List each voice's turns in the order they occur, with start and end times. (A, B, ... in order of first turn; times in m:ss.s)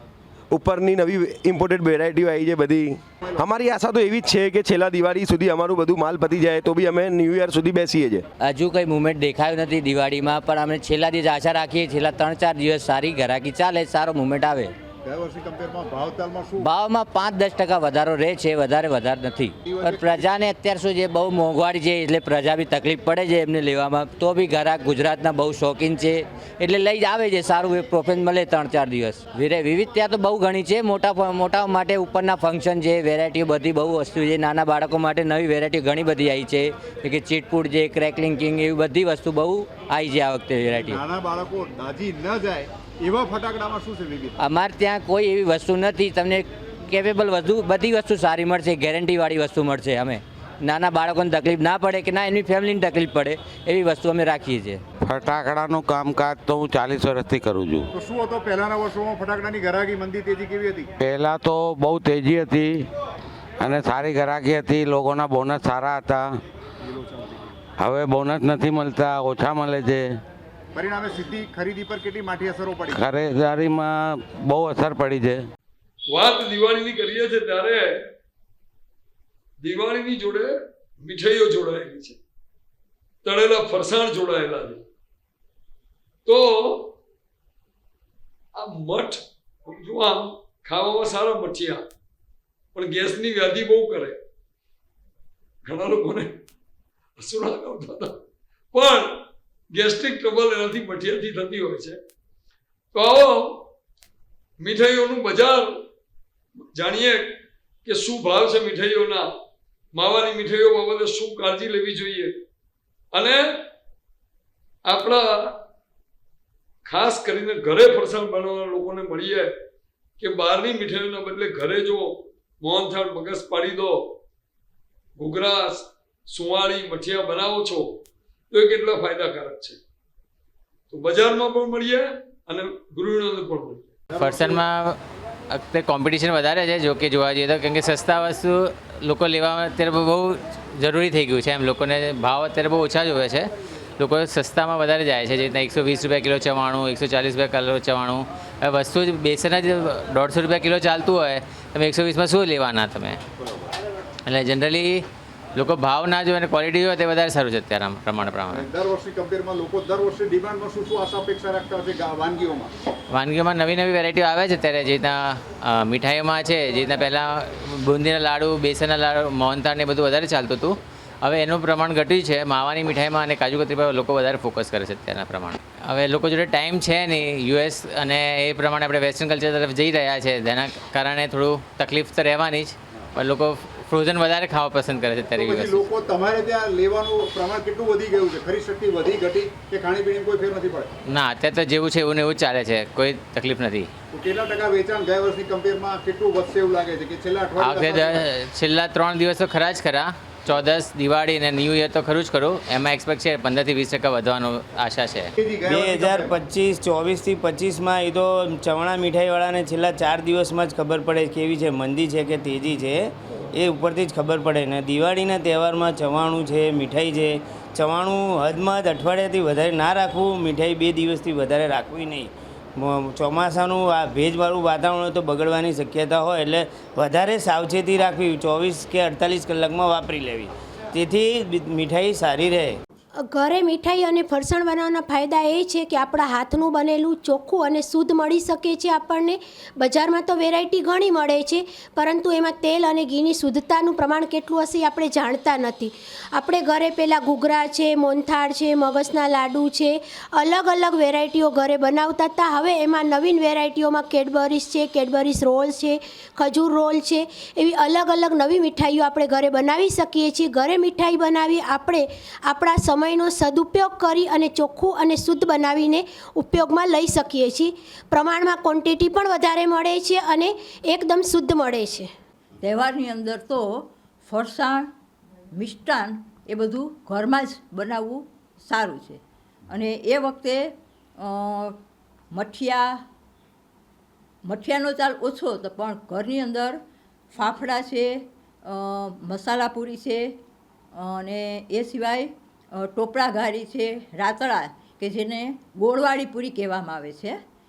0:00.5-0:08.2 A
0:08.5-0:14.7 B
0:15.0-0:16.6 C
0:16.6-0:41.0 B
0:19.6-0:20.3 C
0:40.7-0:44.3 C
0:44.4-0:54.8 B
0:55.0-0:57.9 D
0:57.9-1:00.9 C
1:01.0-1:02.8 D
1:03.6-1:06.4 D
1:06.8-1:07.5 C
1:07.8-1:10.2 D
1:10.7-1:13.0 C
1:12.9-1:15.4 D
1:16.1-1:18.1 E
1:19.6-1:22.2 E
1:23.2-1:24.8 E
1:26.2-1:26.9 E
1:28.5-1:31.9 E
1:32.7-1:34.2 E
1:35.6-1:36.4 E
1:37.2-1:38.2 E
1:38.7-1:42.0 E
1:42.9-1:43.7 E
1:44.6-1:45.8 E
1:46.7-1:47.3 E
1:47.8-1:49.3 E
1:49.9-1:52.4 E
1:53.1-1:53.6 E
1:54.8-1:55.6 E
1:56.8-1:59.5 E
2:00.2-2:04.2 E
2:05.2-2:09.8 E
2:10.9-2:13.9 E
2:14.1-2:14.6 C
2:14.2-2:15.0 F
2:15.5-2:33.2 F
2:33.4-2:33.7 C
2:34.2-2:38.6 F
2:38.5-2:42.7 C
2:43.1-3:05.9 F
3:05.4-3:10.9 C
3:11.1-3:13.9 F
3:14.1-3:18.2 C
3:17.6-3:25.3 F
3:25.4-3:26.3 C
3:25.6-3:52.7 G
3:53.3-4:32.1 H
4:32.6-4:34.9 I
4:35.5-4:41.8 I
4:42.3-4:43.0 I
4:44.4-4:46.8 I
4:47.3-4:50.4 I
4:50.9-4:57.4 I